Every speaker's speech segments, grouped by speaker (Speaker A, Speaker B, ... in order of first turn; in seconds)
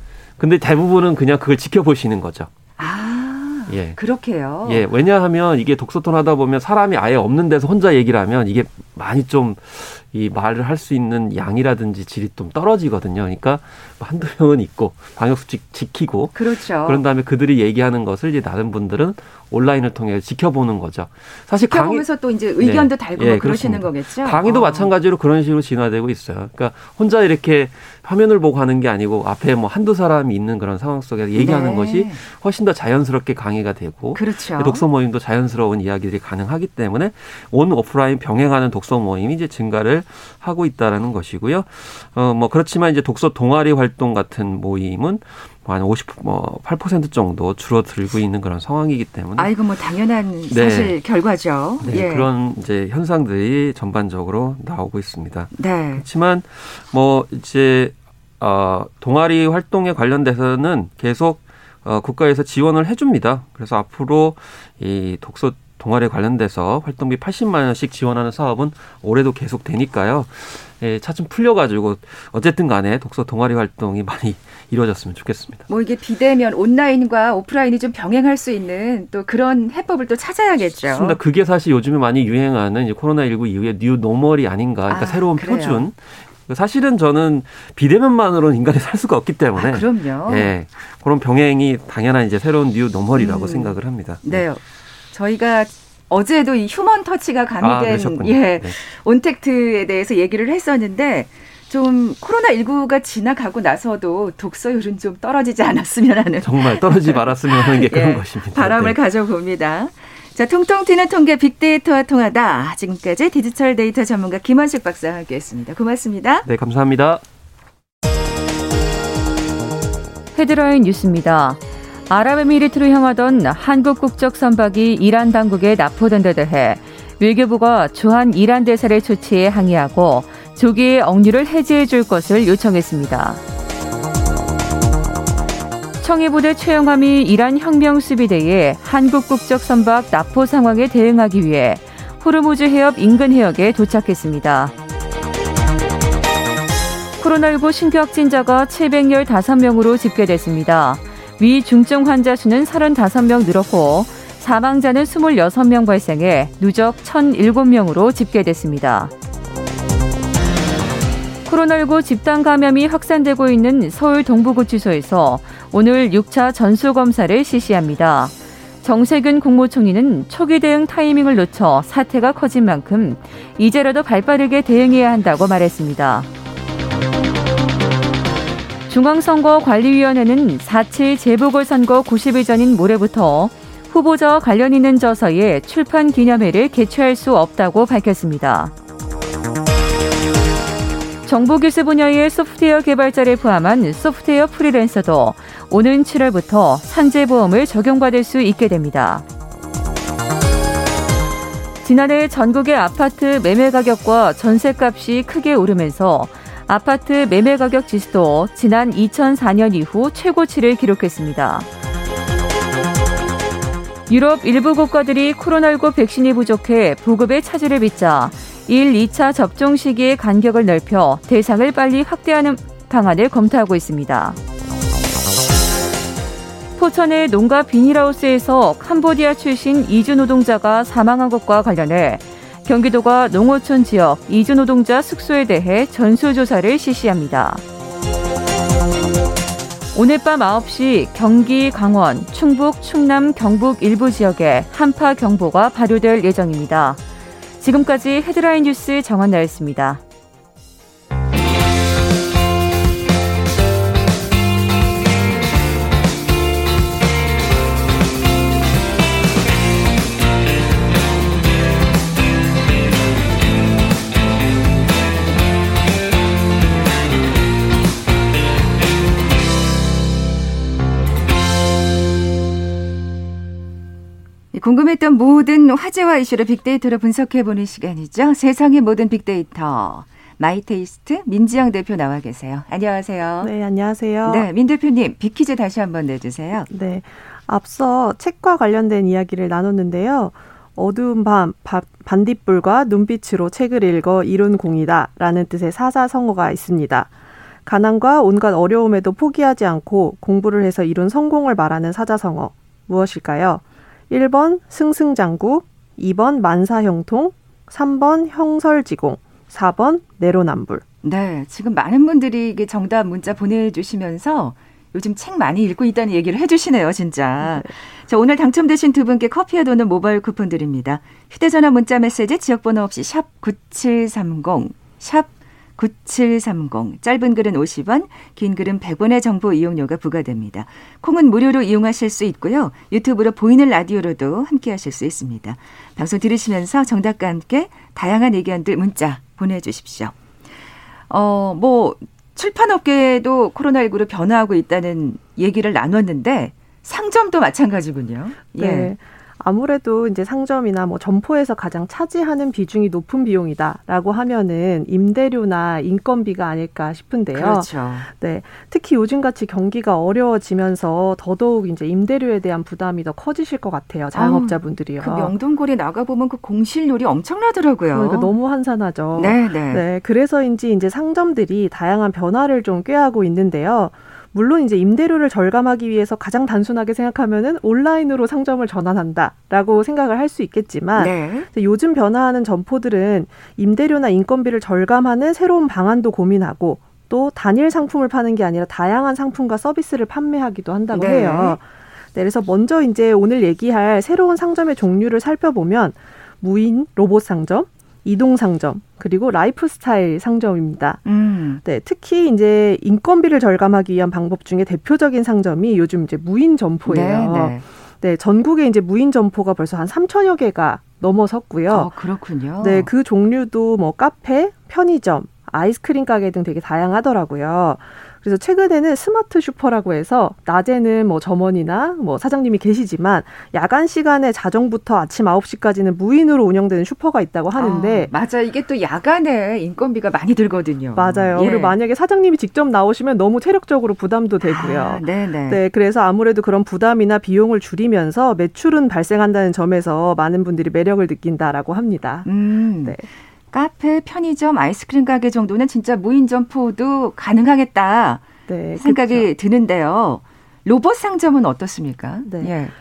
Speaker A: 0.4-2.5, 3.7-4.0, 4.6-22.1, 22.6-49.5, 50.5-51.0, 51.8-75.7, 80.8-94.4, 97.6-98.8, 106.4-109.0, 116.4-117.2
Speaker B: 2.8-4.8, 16.3-17.0, 21.7-24.9, 31.3-32.2, 34.1-34.8, 49.4-52.3, 55.5-56.0, 75.7-81.2, 84.9-85.8, 89.5-90.5, 93.2-116.5, 274.5-283.5, 284.2-286.7, 311.0-340.1, 341.1-348.9, 357.3-358.1, 364.1-368.3, 369.1-369.8, 381.0-381.5, 390.9-391.6, 401.0-401.6, 406.9-407.6, 411.7-412.9, 427.5-431.7, 434.4-435.6, 442.2-448.2, 448.8-452.7
Speaker C: 120.3-133.4, 136.0-144.7, 147.2-159.1, 161.4-176.3, 178.9-188.7, 191.2-199.2, 201.8-211.7, 214.1-224.4, 226.8-237.6, 239.9-247.0, 247.6-250.0
Speaker D: 283.4-284.4, 286.7-297.1, 297.6-310.8, 317.4-317.7, 348.6-365.3, 367.9-401.0, 401.6-411.9, 412.6-428.1, 430.9-442.3, 448.5-449.3, 452.2-452.5